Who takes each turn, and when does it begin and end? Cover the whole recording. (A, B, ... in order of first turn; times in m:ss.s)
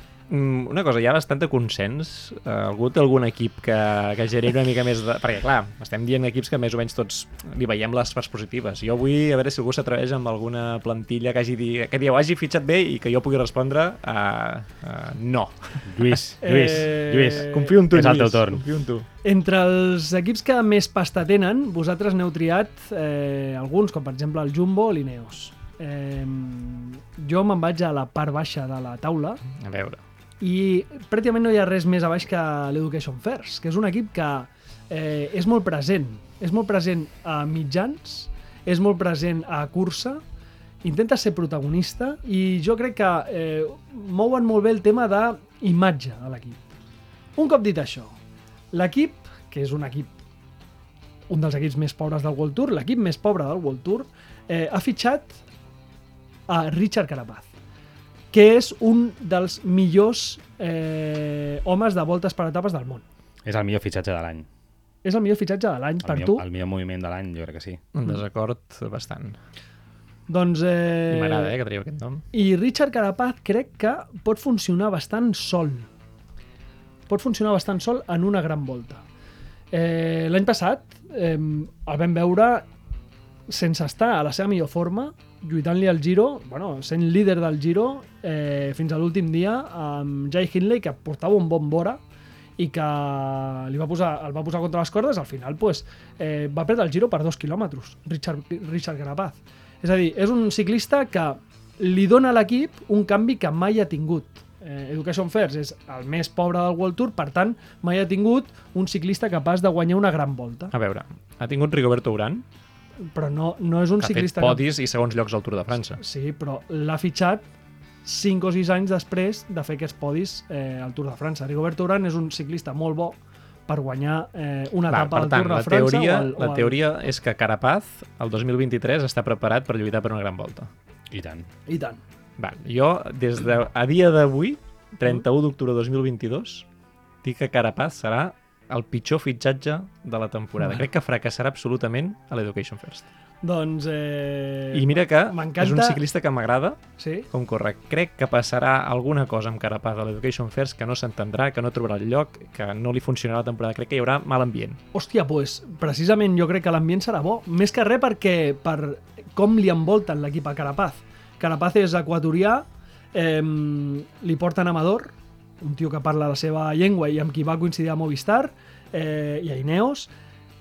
0:00.3-0:16.2 A
0:15.9-0:18.6 B
0:16.4-0:17.7 C
0:17.4-0:19.1 A
0:19.2-0:29.4 C
0:29.5-0:30.0 A
0:30.4-0:40.2 C
0:40.8-0:46.6 C
0:47.4-0:48.1 C
0:48.7-0:50.1 C
0:51.3-0:55.4 C
0:56.5-0:57.5 C
0:58.3-1:03.0 C
1:03.4-1:04.5 B
1:05.0-1:06.4 C
1:06.0-1:07.8 B
1:07.9-1:09.4 A
1:10.3-1:11.5 C
1:11.1-1:12.2 A
1:12.3-1:15.9 C
1:17.1-1:19.0 C
1:19.7-1:22.7 C
1:23.5-1:32.0 C
1:32.6-1:50.7 C
1:50.7-1:52.4 A
1:53.1-1:54.6 C
1:54.0-1:56.0 A
1:56.0-1:57.4 C
1:58.0-2:06.8 C
2:04.9-2:10.7 A
2:11.1-2:11.5 B
2:11.7-2:12.0 C
2:12.4-2:16.6 A
2:17.2-2:23.0 A
2:23.4-2:26.0 C
2:24.7-2:34.8 A
2:27.0-2:27.3 C
2:34.9-2:50.1 C